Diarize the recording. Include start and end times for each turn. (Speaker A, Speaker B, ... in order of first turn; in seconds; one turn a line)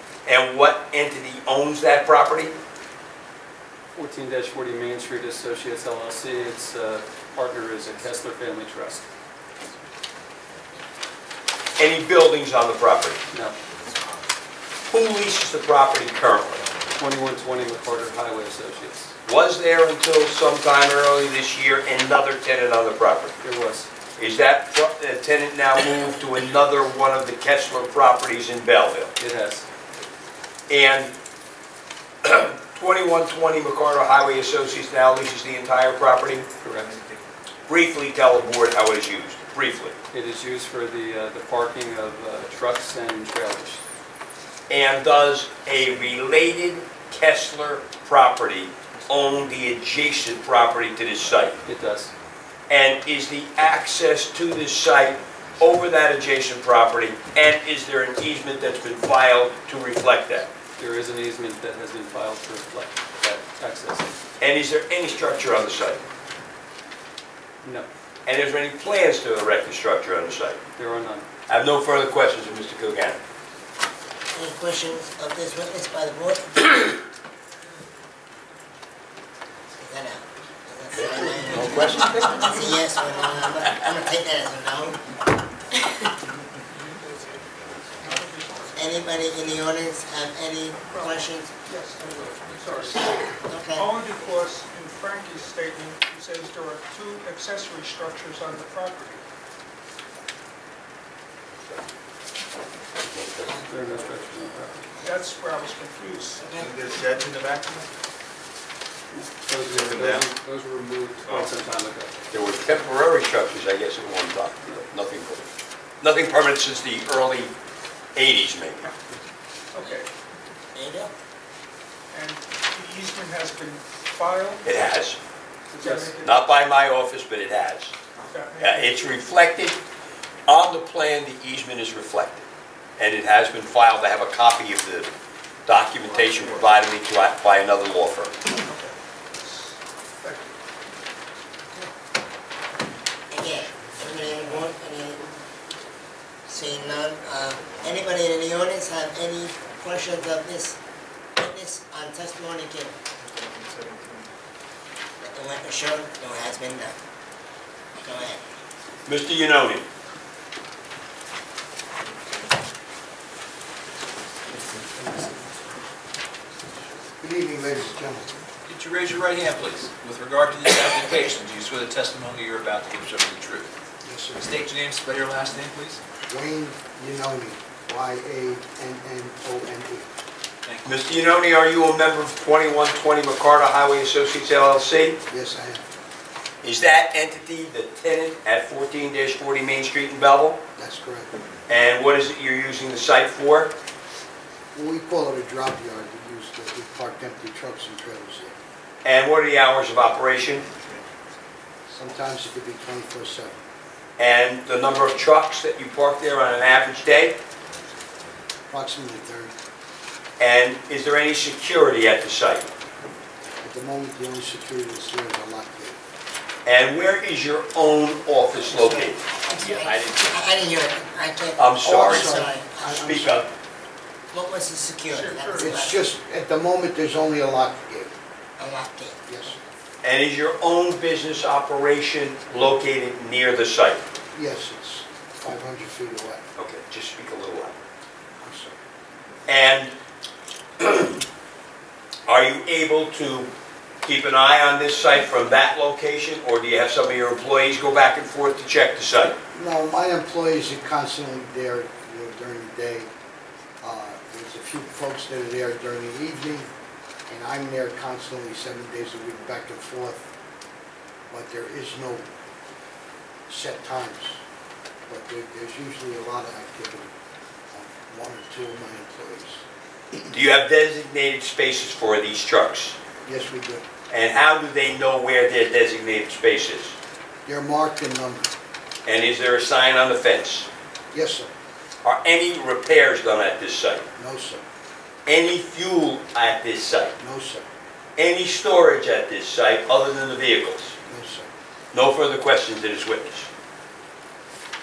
Speaker A: 0.2-2.5
Speaker B: 3.9-9.0
Speaker A: 11.8-13.2
Speaker B: 13.3-13.6
Speaker A: 14.9-16.6
Speaker B: 16.9-19.1
Speaker A: 19.2-23.3
Speaker B: 23.4-23.9
Speaker A: 24.2-29.1
Speaker B: 29.2-29.6
Speaker A: 30.7-31.1
Speaker A: 32.2-36.5
Speaker B: 36.6-36.9
Speaker C: 36.8-37.2
Speaker A: 37.7-40.0
Speaker B: 40.1-43.8
Speaker A: 44.7-51.5
Speaker B: 51.6-52.1
Speaker A: 52.7-60.5
Speaker B: 60.8-64.2
Speaker A: 64.4-66.0
Speaker B: 67.6-67.9
Speaker A: 68.2-70.6
Speaker B: 70.8-71.3
Speaker A: 71.5-73.2
Speaker D: 74.3-76.9
Speaker D: 79.8-85.1
Speaker A: 80.9-82.0
Speaker E: 81.8-82.2
Speaker D: 85.7-86.1
Speaker F: 88.0-89.1
Speaker D: 88.7-91.5
Speaker F: 90.9-93.2
Speaker B: 92.1-92.8
Speaker D: 93.0-93.9
Speaker F: 93.7-99.2
Speaker A: 103.0-103.6
Speaker B: 103.7-104.9
Speaker F: 105.0-106.5
Speaker D: 106.4-106.7
Speaker C: 106.5-107.9
Speaker B: 109.1-112.2
Speaker C: 109.7-110.2
Speaker C: 111.2-111.5
Speaker A: 112.3-115.5
Speaker A: 116.0-117.5
Speaker A: 118.1-118.9
Speaker F: 119.7-120.1
Speaker D: 120.7-121.1
Speaker F: 122.1-124.7
Speaker A: 124.6-125.2
Speaker F: 125.7-126.3
Speaker B: 125.8-126.1
Speaker A: 126.1-127.9
Speaker F: 128.2-128.9
Speaker A: 128.6-129.8
Speaker A: 130.5-132.5
Speaker A: 133.0-135.1
Speaker A: 135.7-138.4
Speaker C: 136.1-136.5
Speaker F: 138.6-140.5
Speaker D: 143.3-145.3
Speaker D: 146.5-150.8
Speaker D: 151.4-152.9
Speaker C: 153.2-154.3
Speaker D: 155.2-157.0
Speaker D: 158.0-158.4
Speaker A: 159.1-159.8
Speaker C: 161.9-162.7
Speaker G: 167.2-168.3
Speaker E: 168.7-173.7
Speaker G: 174.0-174.5
Speaker E: 174.4-176.0
Speaker G: 176.3-180.1
Speaker A: 180.8-185.2
Speaker G: 185.3-185.9
Speaker A: 186.6-190.6
Speaker G: 190.8-191.3
Speaker A: 191.7-193.7
Speaker G: 194.7-198.6
Speaker A: 199.0-200.7
Speaker G: 201.9-203.6
Speaker A: 204.2-207.4
Speaker G: 208.7-209.5
Speaker A: 210.4-212.7
Speaker G: 213.6-216.0
Speaker A: 216.6-220.3
Speaker D: 218.7-223.1
Speaker A: 221.6-223.5
Speaker G: 221.8-223.5
Speaker D: 224.3-226.0
Speaker F: 225.1-225.7
Speaker G: 225.6-228.1
Speaker D: 228.6-229.2
Speaker G: 229.3-229.6
Speaker A: 230.0-234.0
Speaker G: 234.3-236.4
Speaker A: 236.6-237.8
Speaker G: 238.4-238.7
Speaker A: 239.5-239.9
Speaker A: 240.8-241.2
Speaker A: 242.3-243.5
Speaker A: 244.0-249.3
Speaker G: 249.5-253.1
Speaker G: 253.8-256.7
Speaker G: 257.3-260.2
Speaker G: 261.3-262.2
Speaker G: 263.5-264.4
Speaker G: 265.1-267.1
Speaker G: 267.7-269.6
Speaker A: 270.3-273.0
Speaker G: 273.2-273.8
Speaker A: 274.1-277.0
Speaker G: 277.4-278.5
Speaker A: 279.1-280.7
Speaker G: 281.1-281.5
Speaker A: 282.0-284.0
Speaker G: 284.2-284.6
Speaker A: 285.2-287.1
Speaker G: 287.2-287.6
Speaker A: 288.2-290.9
Speaker G: 291.1-291.5
Speaker A: 291.9-293.5